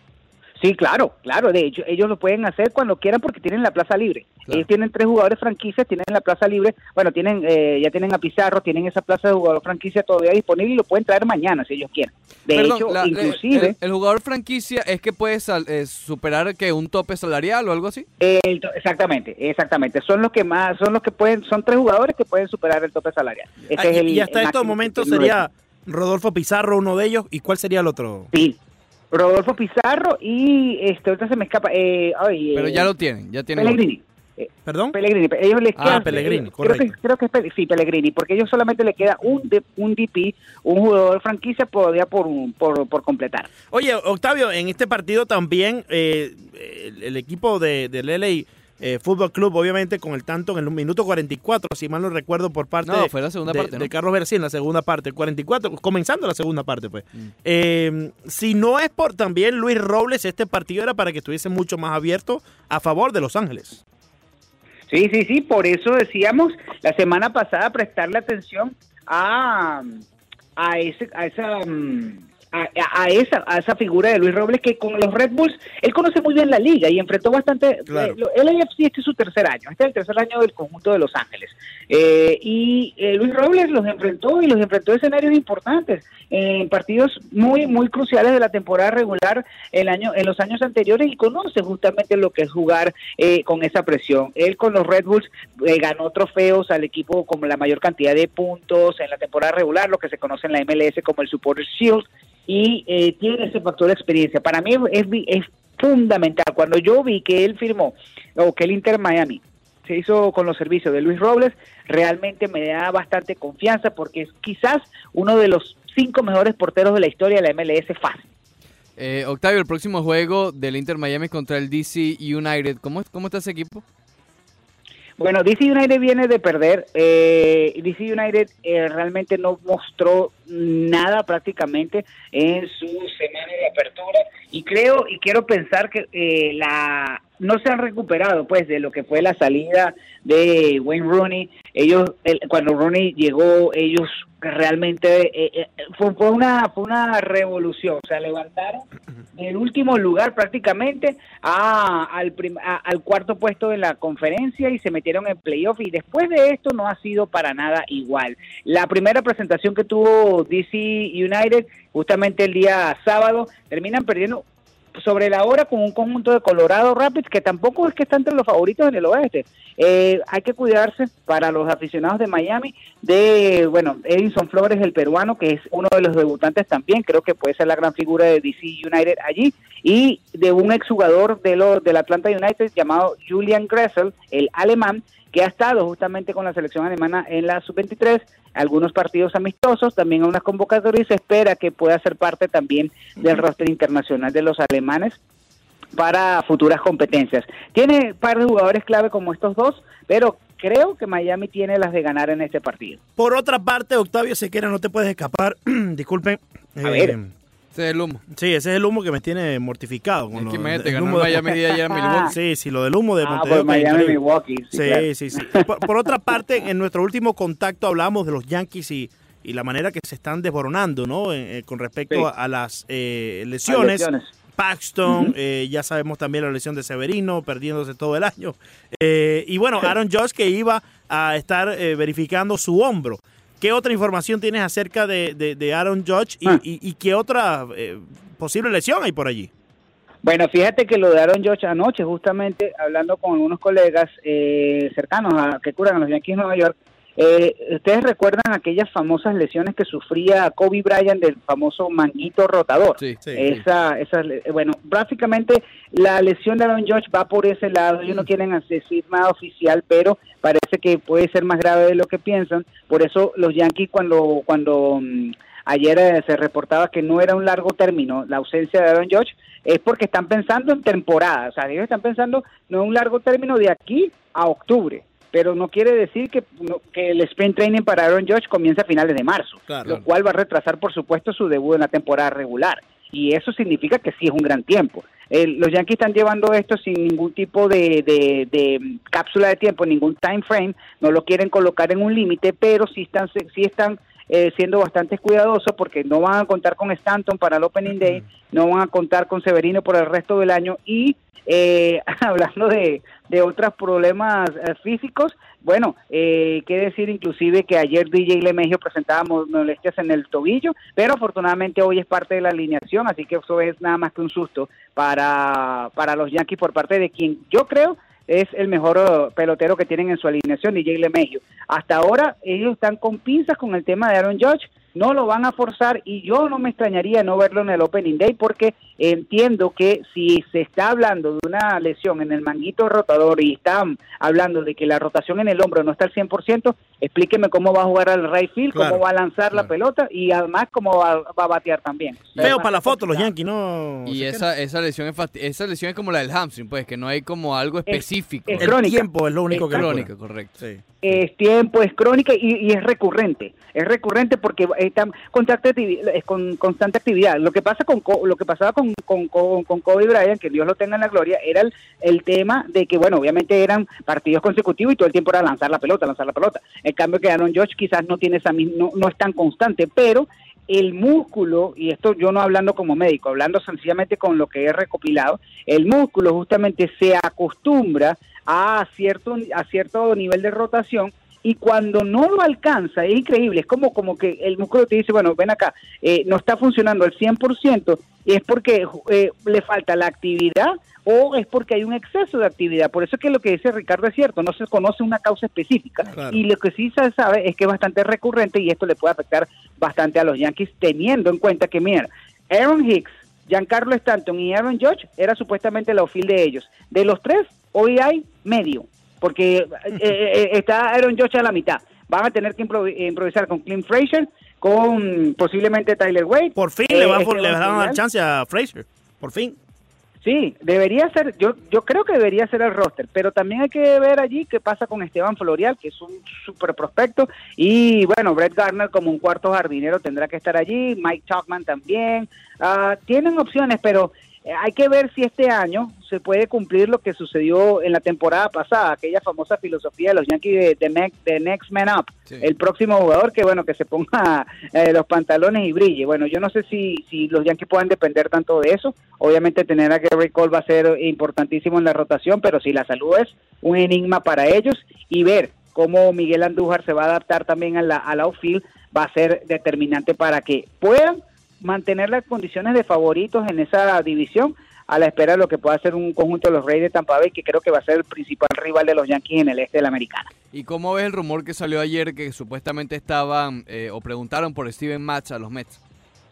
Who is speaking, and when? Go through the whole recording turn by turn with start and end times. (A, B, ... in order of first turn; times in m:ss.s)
0:00.6-0:13.7 A
0:12.5-0:18.0 B
0:18.2-0:25.4 A
0:23.7-0:28.3 C
0:29.1-0:32.9 A
0:32.5-0:33.8 B
0:33.6-0:43.5 A
0:34.6-0:35.0 C
0:35.8-0:36.1 B
0:35.8-0:36.9 C
0:43.7-1:03.8 C
0:52.8-0:53.9 B
1:04.9-1:10.0 A
1:10.6-1:58.3 A
1:17.9-1:18.2 C
1:59.0-2:03.8 B
2:05.2-3:15.2 A
3:15.9-3:23.0 A
3:23.2-3:27.3 C
3:26.8-3:27.2 A
3:27.7-3:28.2 B
3:28.3-3:31.6 C
3:30.3-3:32.4 B
3:31.9-3:32.3 A
3:32.3-3:34.2 C
3:33.2-3:35.7 A
3:34.7-3:59.5 C
3:43.7-3:44.3 A
4:00.2-5:43.3 A
4:39.7-4:40.0 C
5:38.7-5:39.0 C
5:42.4-5:44.5 C
5:44.1-5:48.7 B
5:47.9-5:49.9 A
5:48.6-5:50.8 C
5:49.6-5:50.6 B
5:51.0-6:58.0 A
6:36.1-6:36.4 C
6:56.6-6:59.6 C
7:00.2-7:50.3 A
7:50.5-7:55.8 B